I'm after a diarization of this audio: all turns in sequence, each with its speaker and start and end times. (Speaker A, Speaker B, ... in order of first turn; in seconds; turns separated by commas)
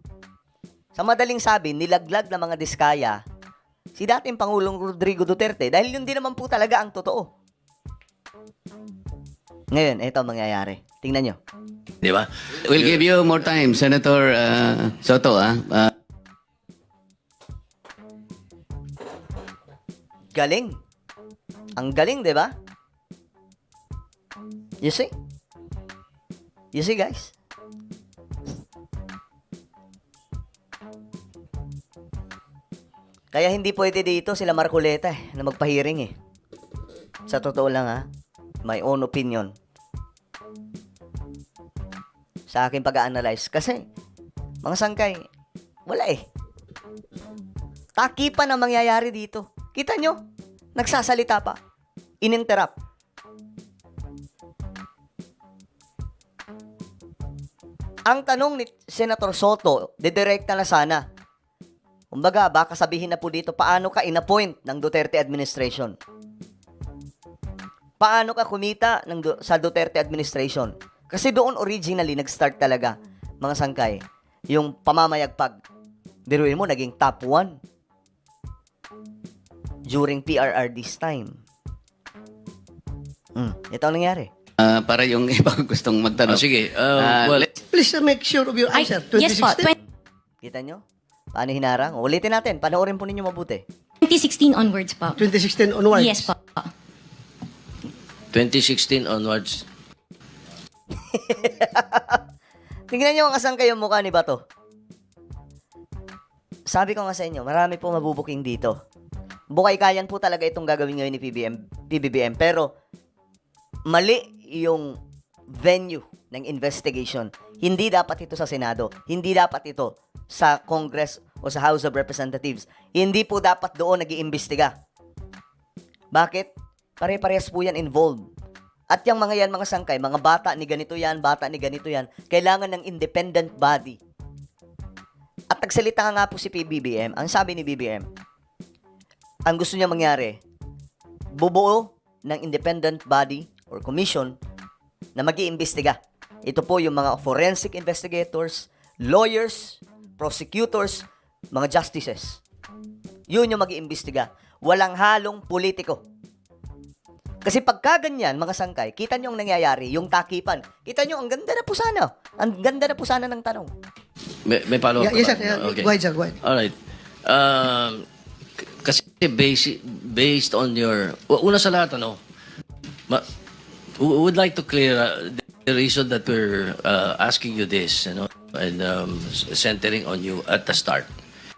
Speaker A: 1.0-3.2, Speaker A: 4.0-7.3, Speaker A: 9.7-11.4, Speaker B: 12.0-13.0, Speaker C: 12.6-15.9, Speaker A: 20.3-20.8, Speaker A: 21.8-22.5, Speaker A: 24.8-25.1, Speaker A: 26.7-27.3, Speaker A: 33.3-36.1, Speaker A: 37.3-38.1, Speaker A: 38.6-39.5, Speaker A: 42.5-43.8, Speaker A: 44.6-45.2, Speaker A: 45.9-46.2, Speaker A: 48.0-50.2, Speaker A: 50.8-51.6, Speaker A: 52.2-52.7, Speaker A: 58.1-61.0, Speaker A: 62.1-66.0, Speaker A: 68.0-74.0, Speaker A: 74.5-75.6, Speaker A: 76.3-77.5, Speaker A: 79.9-81.4, Speaker A: 83.4-84.3, Speaker C: 84.6-87.5, Speaker B: 86.3-87.6, Speaker D: 87.7-89.7, Speaker E: 88.7-89.8, Speaker A: 90.4-90.8, Speaker A: 91.3-93.6, Speaker E: 94.0-95.2, Speaker D: 95.2-96.3, Speaker E: 96.0-96.7, Speaker B: 98.3-99.6, Speaker A: 101.1-102.2, Speaker A: 102.9-104.4, Speaker A: 106.7-108.8, Speaker A: 109.5-112.7, Speaker A: 113.9-115.0, Speaker A: 115.5-124.7, Speaker A: 126.1-128.3, Speaker A: 128.9-134.0, Speaker A: 135.5-138.1, Speaker A: 139.5-140.4, Speaker A: 141.4-144.4, Speaker A: 145.2-152.4, Speaker A: 153.3-156.0, Speaker A: 157.4-163.7, Speaker B: 164.5-166.7, Speaker D: 165.0-166.4, Speaker B: 167.3-168.0, Speaker B: 168.8-172.2, Speaker B: 174.0-181.1